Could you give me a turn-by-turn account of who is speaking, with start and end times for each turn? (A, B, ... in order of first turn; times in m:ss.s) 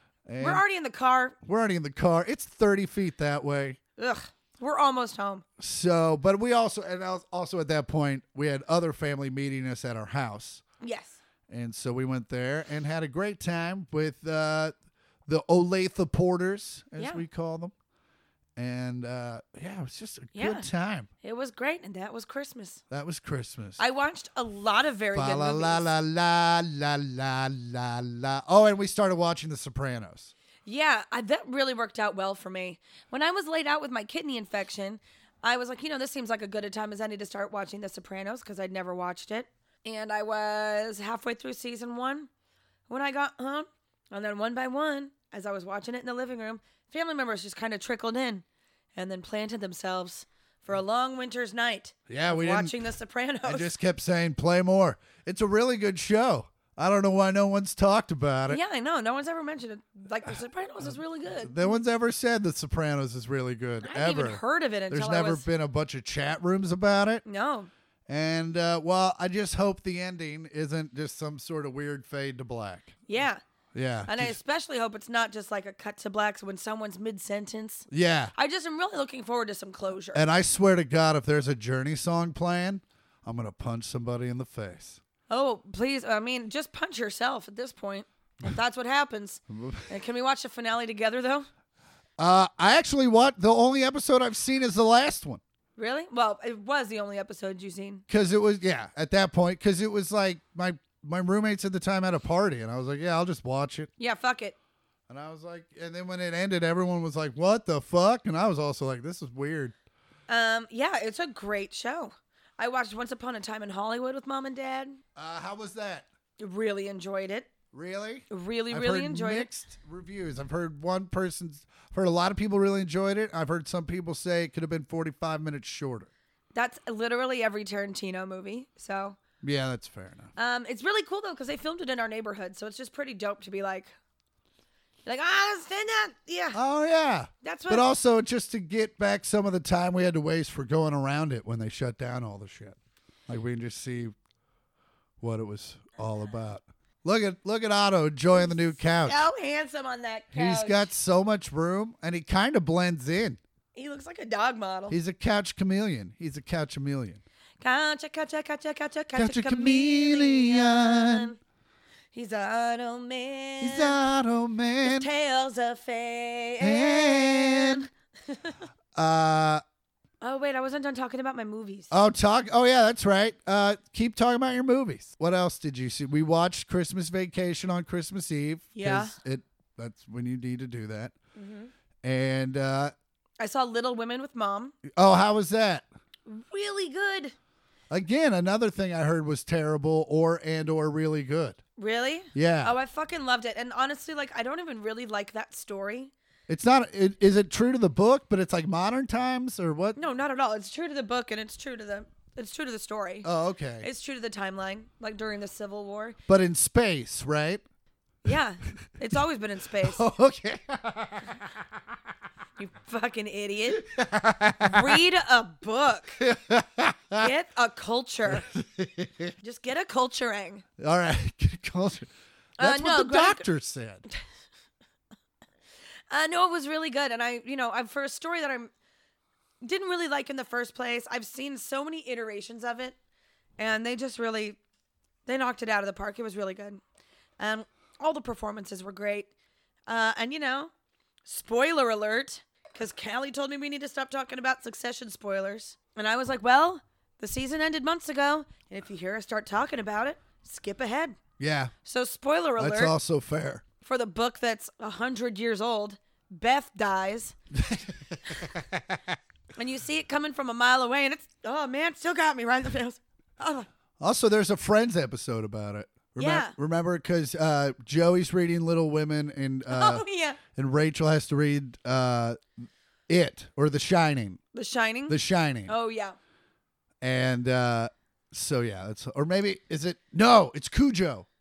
0:00.3-0:00.6 A
0:00.4-0:01.4 B
0:01.4-0:03.8 A
0:04.0-0:05.4 B
0:05.6-0:10.6 A
0:10.8-0:11.2 B
0:11.5-0:14.8 A
0:15.3-0:17.7 A
0:17.0-0:17.2 B
0:18.6-0:21.1 A
0:20.4-0:20.7 B
0:21.2-0:22.8 B
0:22.9-0:23.8 A
0:23.8-0:25.9 B
0:25.1-0:30.3 A
0:30.7-0:42.3 B
0:42.9-0:48.4 B
0:49.0-0:53.7 B
0:52.1-0:52.8 A
0:53.4-0:58.6 A
0:58.5-1:01.7 B
1:00.8-1:07.2 A
1:03.8-1:05.4 B
1:07.2-1:07.7 B
1:08.1-1:13.0 A
1:13.1-1:13.4 B
1:13.7-1:14.4 A
1:14.1-1:20.2 B
1:17.9-1:18.3 A
1:20.1-1:25.0 A
1:25.3-1:31.5 B
1:29.5-1:29.9 A
1:32.2-1:35.4 A
1:35.8-1:38.0 B
1:38.1-1:43.9 A
1:44.0-1:44.6 B
1:45.1-1:49.8 A
1:50.3-1:55.0 B
1:55.2-1:56.1 A
1:56.4-1:57.5 B
1:57.7-2:06.1 A
1:58.3-1:59.5 B
2:06.5-2:09.2 B
2:09.4-2:10.3 A
2:10.4-2:13.9 B
2:15.1-2:16.6 B
2:16.5-2:24.2 A
2:17.4-2:17.8 B
2:25.2-2:29.2 A
2:28.3-2:30.9 B
2:30.3-2:33.4 A
2:33.8-2:35.0 B
2:34.9-2:37.2 A
2:37.6-2:41.4 B
2:39.2-2:41.3 A
2:42.1-2:44.0 B
2:43.6-2:45.1 A
2:44.8-2:48.6 B
2:46.6-2:47.9 A
2:49.0-2:49.6 A
2:50.2-2:51.9 B
2:51.9-3:01.1 A
2:58.8-2:59.1 B
3:01.4-3:01.7 B
3:02.0-3:02.9 A
3:03.4-3:04.8 B
3:04.9-3:05.9 A
3:06.3-3:07.3 B
3:07.9-3:11.6 A
3:11.8-3:16.1 B
3:12.3-3:12.8 A
3:16.5-3:20.0 A
3:20.0-3:23.3 B
3:23.2-3:23.9 A
3:23.8-3:26.2 B
3:26.3-3:27.6 A
3:28.2-3:30.0 B
3:29.8-3:31.7 A
3:32.6-3:33.9 B
3:33.8-3:35.0 A
3:34.6-3:36.2 B
3:36.2-3:37.3 A
3:37.2-3:38.5 B
3:38.3-3:39.3 A
3:39.4-3:40.6 B
3:40.8-3:44.0 A
3:42.6-3:43.4 B
3:46.1-3:48.7 B
3:49.6-3:53.0 B
3:53.6-3:54.6 B
3:55.3-3:56.8 B
3:57.4-3:59.3 B
3:59.9-4:00.7 B
4:01.2-4:11.2 B
4:11.4-4:11.7 A
4:11.8-4:12.9 B
4:12.6-4:13.6 A
4:13.8-4:17.4 B
4:17.5-4:19.2 A
4:19.6-4:23.7 B
4:24.0-4:30.0 A
4:26.2-4:26.5 B
4:29.7-4:30.4 B
4:30.6-4:34.4 A
4:34.5-4:36.2 B
4:35.1-4:35.7 A
4:37.0-4:41.3 A